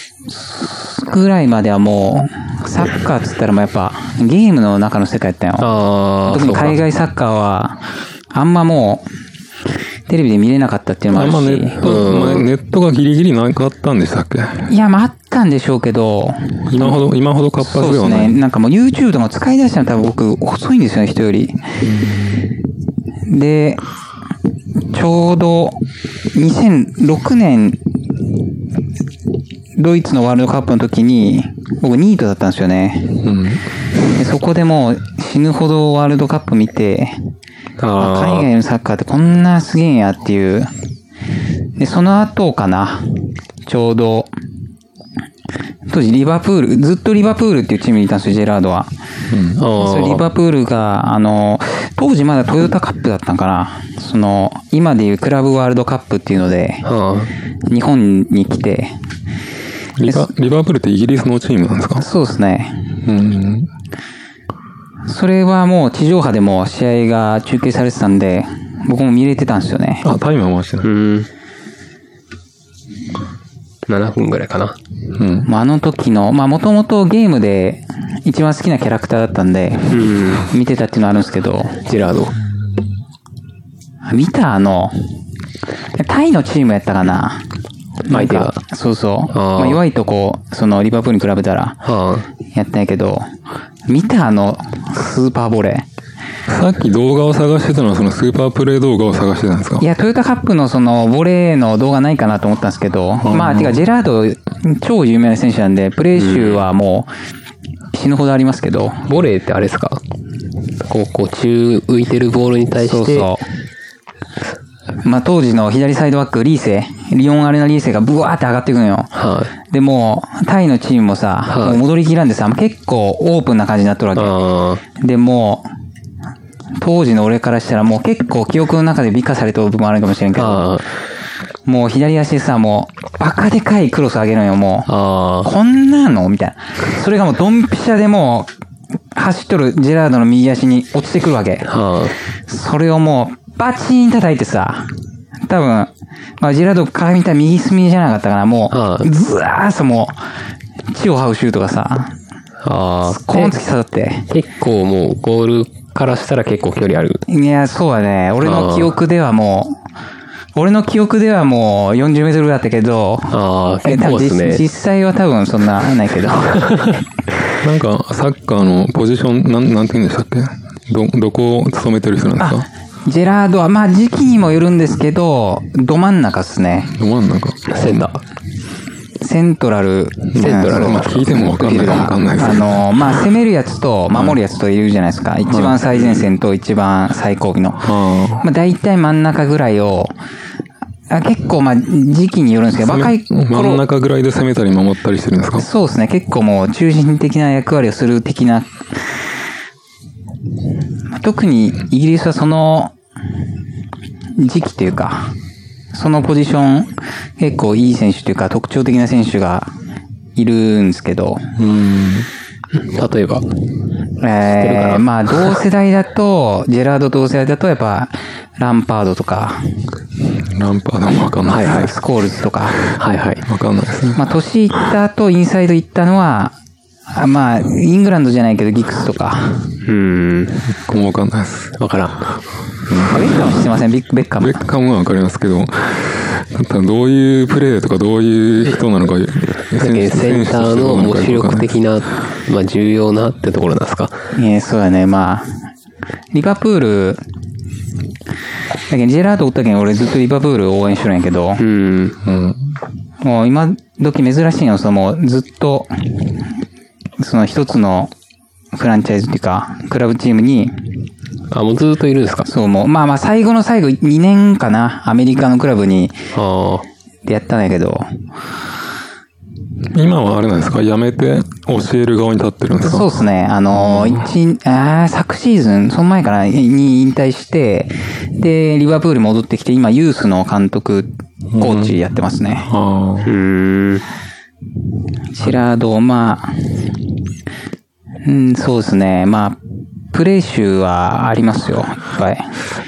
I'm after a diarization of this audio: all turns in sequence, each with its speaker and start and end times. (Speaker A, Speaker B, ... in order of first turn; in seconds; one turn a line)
Speaker A: 0.3-5.7
Speaker B: 5.6-6.8
Speaker A: 6.3-9.1
Speaker A: 10.1-11.8
Speaker C: 11.1-14.7
Speaker B: 11.8-12.5
Speaker A: 14.7-17.0
Speaker C: 16.7-18.4
Speaker A: 17.6-21.7
Speaker C: 21.8-22.4
Speaker A: 23.3-23.8
Speaker A: 24.9-25.8
Speaker A: 26.3-27.8
Speaker A: 29.8-33.2
Speaker C: 33.2-33.6
Speaker A: 34.1-37.2
Speaker B: 37.8-38.5
Speaker A: 38.0-40.7
Speaker A: 41.8-44.3
Speaker A: 45.9-48.9
Speaker C: 49.3-49.6
Speaker B: 49.6-50.2
Speaker A: 49.6-56.9
Speaker B: 56.8-57.3
Speaker A: 57.7-59.0
Speaker C: 60.0-62.1
Speaker A: 62.0-63.0
Speaker C: 63.0-63.7
Speaker A: 65.1-70.1
Speaker C: 70.0-70.9
Speaker B: 70.8-71.3
Speaker B: 73.9-74.8
Speaker C: 75.2-75.5
Speaker A: 75.5-81.8
Speaker B: 79.9-80.5
Speaker B: 81.8-82.3
Speaker A: 84.1-85.1
Speaker A: 85.9-87.5
Speaker A: 88.0-91.8
Speaker B: 88.1-88.6
Speaker B: 89.3-89.8
Speaker B: 91.8-92.3
Speaker A: 92.5-93.3
Speaker A: 93.9-95.9
Speaker C: 96.5-99.8
Speaker A: 99.8-107.1
Speaker C: 103.2-103.8
Speaker B: 106.2-106.7
Speaker A: 107.9-109.1
Speaker B: 109.1-110.0
Speaker B: 110.8-113.3
Speaker A: 112.8-113.5
Speaker A: 115.0-119.1
Speaker B: 119.1-119.5
Speaker A: 119.7-124.4
Speaker B: 121.5-121.8
Speaker B: 124.2-124.8
Speaker A: 125.0-125.7
Speaker A: 126.8-130.7
Speaker B: 130.3-130.9
Speaker A: 131.7-134.9
Speaker B: 134.9-135.5
Speaker A: 135.4-138.5
Speaker A: 139.1-141.8
Speaker B: 141.6-142.2
Speaker A: 142.4-150.2
Speaker B: 148.7-149.1
Speaker A: 150.9-152.2
Speaker B: 152.6-153.6
Speaker A: 153.1-154.3
Speaker B: 154.3-157.2
Speaker A: 157.3-159.8
Speaker B: 158.4-158.9
Speaker A: 160.6-167.0
Speaker B: 163.3-164.7
Speaker C: 167.6-172.7
Speaker A: 172.4-176.9
Speaker C: 177.0-178.0
Speaker B: 177.7-178.2
Speaker A: 179.2-187.9
Speaker C: 180.3-183.2
Speaker B: 180.4-181.9
Speaker C: 184.1-184.4
Speaker C: 185.5-186.0
Speaker C: 187.8-188.5
Speaker A: 188.4-190.2
Speaker A: 191.1-193.8
Speaker C: 192.8-195.7
Speaker A: 195.6-199.2
Speaker A: 201.1-202.9
Speaker A: 204.4-205.3
Speaker A: 205.9-209.7
Speaker A: 210.4-211.5
Speaker C: 211.6-212.3
Speaker B: 212.8-213.5
Speaker A: 214.2-219.9
Speaker B: 214.5-215.6
Speaker C: 220.4-221.9
Speaker B: 221.5-221.9
Speaker A: 221.6-222.8
Speaker B: 223.0-223.4
Speaker C: 223.5-224.2
Speaker A: 224.2-226.6
Speaker A: 227.1-229.8
Speaker B: 229.8-230.6
Speaker C: 230.7-231.8
Speaker B: 231.8-232.3
Speaker C: 232.9-233.2
Speaker A: 233.1-234.6
Speaker C: 234.4-241.8
Speaker B: 239.8-244.3
Speaker A: 244.4-245.7
Speaker A: 246.3-247.2
Speaker A: 248.9-251.6
Speaker B: 251.6-252.2
Speaker C: 252.2-252.7
Speaker A: 253.2-256.5
Speaker A: 257.2-258.1
Speaker A: 258.7-261.0
Speaker B: 261.5-262.5
Speaker A: 262.5-266.2
Speaker B: 266.3-266.9
Speaker A: 267.2-268.1
Speaker C: 269.9-273.1
Speaker A: 272.8-282.7
Speaker C: 273.7-274.3
Speaker C: 281.5-282.0
Speaker C: 282.7-283.3
Speaker B: 283.3-284.1
Speaker A: 285.3-287.0
Speaker A: 288.2-289.6
Speaker A: 290.1-292.6